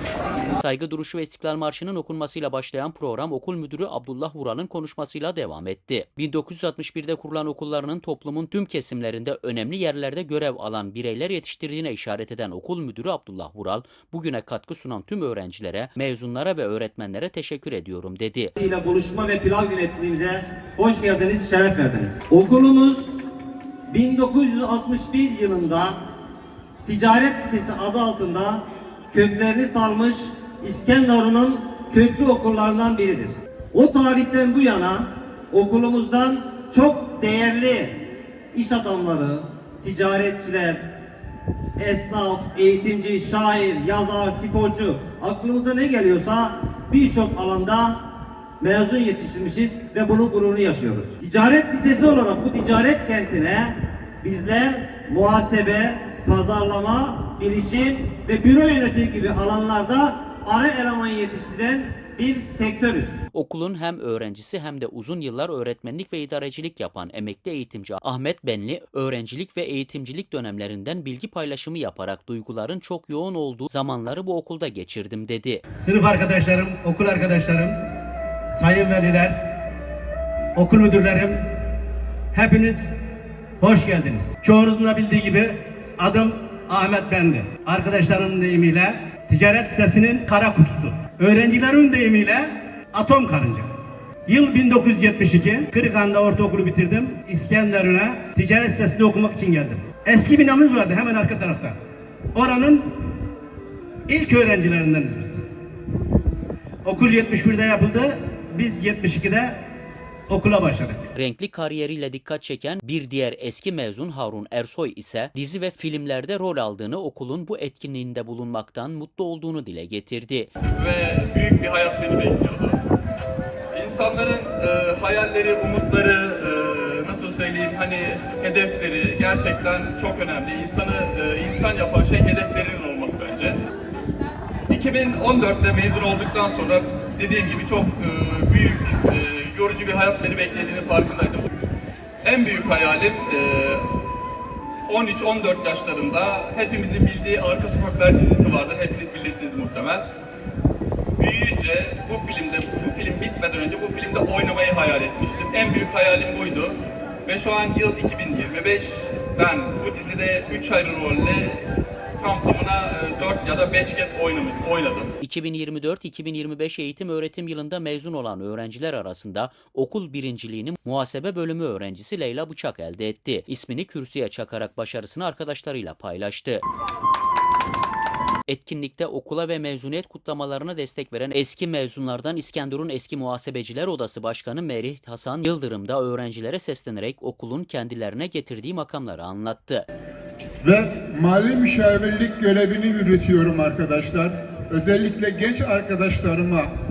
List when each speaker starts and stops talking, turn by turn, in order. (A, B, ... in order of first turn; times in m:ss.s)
0:00.6-0:18.5 A
0:18.6-0:23.1 B
0:23.9-0:26.0 B
0:26.8-0:38.0 B
0:38.5-0:40.8 B
0:41.8-0:48.0 B
0:48.6-1:03.2 B
1:03.3-1:15.6 A
1:15.8-1:17.8 C
1:18.5-1:19.5 C
1:20.6-1:21.4 C
1:22.3-1:23.0 C
1:23.6-1:33.7 C
1:34.3-1:41.8 C
1:42.3-1:42.9 C
1:44.1-1:45.5 C
1:46.8-1:49.6 C
1:50.3-1:51.1 C
1:51.2-2:00.5 A
2:00.8-2:02.8 D
2:03.7-2:13.6 D
2:14.7-2:21.5 D
2:22.2-2:23.8 D
2:24.9-2:30.1 D
2:31.2-2:36.8 D
2:37.3-2:41.6 D
2:42.2-2:45.1 D
2:45.2-2:56.6 A
2:58.5-3:09.9 A
3:10.6-3:16.7 E